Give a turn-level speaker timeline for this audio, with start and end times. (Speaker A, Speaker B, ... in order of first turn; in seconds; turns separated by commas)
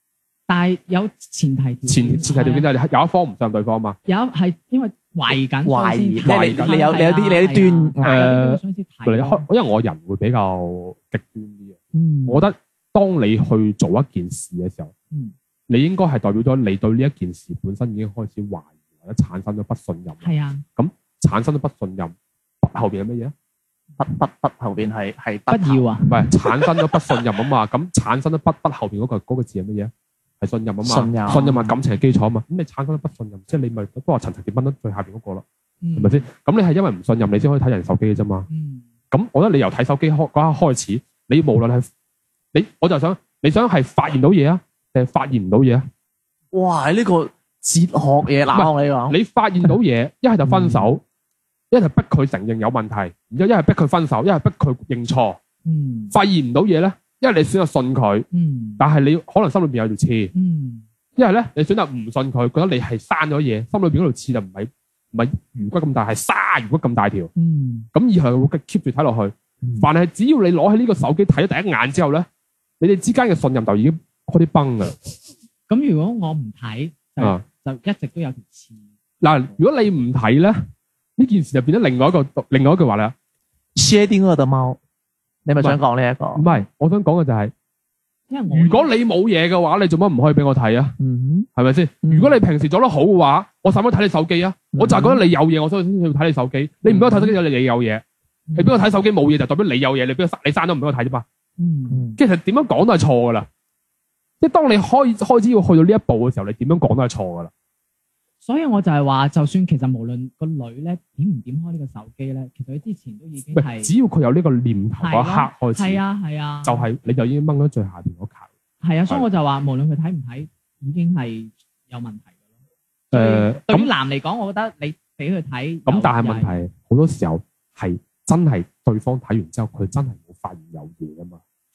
Speaker A: 0.5-2.7, Speaker B: 1.9-4.0, Speaker A: 4.1-9.4, Speaker C: 5.7-8.3, Speaker B: 6.2-7.0, Speaker B: 8.0-14.9, Speaker A: 11.9-12.4, Speaker B: 15.7-23.3, Speaker A: 20.2-20.6, Speaker C: 24.0-25.8, Speaker A: 25.5-26.2, Speaker B: 26.1-35.4, Speaker C: 26.5-26.8, Speaker C: 30.8-31.5, Speaker A: 31.3-31.8, Speaker A: 35.8-36.2, Speaker B: 36.0-38.5, Speaker A: 38.5-38.9, Speaker B: 39.1-41.9, Speaker B: 42.5-45.9, Speaker C: 46.5-49.1, Speaker B: 48.5-51.0, Speaker C: 50.5-50.9, Speaker B: 51.7-55.4, Speaker A: 55.6-56.1, Speaker B: 56.1-58.2, Speaker A: 58.3-58.8, Speaker B: 58.8-60.3, Speaker A: 60.3-60.8, Speaker B: 61.1-67.3, Speaker A: 67.3-67.9, Speaker B: 67.9-72.2, Speaker B: 72.8-75.1, Speaker A: 75.7-78.8, Speaker B: 79.2-80.6, Speaker B: 81.2-83.1, Speaker C: 83.8-84.8, Speaker C: 85.5-86.4, Speaker B: 86.3-87.5, Speaker A: 88.3-88.9, Speaker B: 88.5-91.0, Speaker C: 91.0-91.5, Speaker B: 91.5-98.0, Speaker C: 92.0-92.4, Speaker C: 94.7-95.2, Speaker A: 96.9-97.3, Speaker A: 98.5-98.8, Speaker B: 98.5-101.2, Speaker A: 101.6-102.0, Speaker C: 101.9-102.2, Speaker B: 102.2-103.5, Speaker B: 104.4-107.5, Speaker A: 108.4-113.9, Speaker B: 113.5-116.0, Speaker A: 115.0-116.9, Speaker B: 116.6-118.5, Speaker A: 118.8-122.3, Speaker B: 123.1-123.9, Speaker A: 123.1-126.5, Speaker B: 125.9-131.4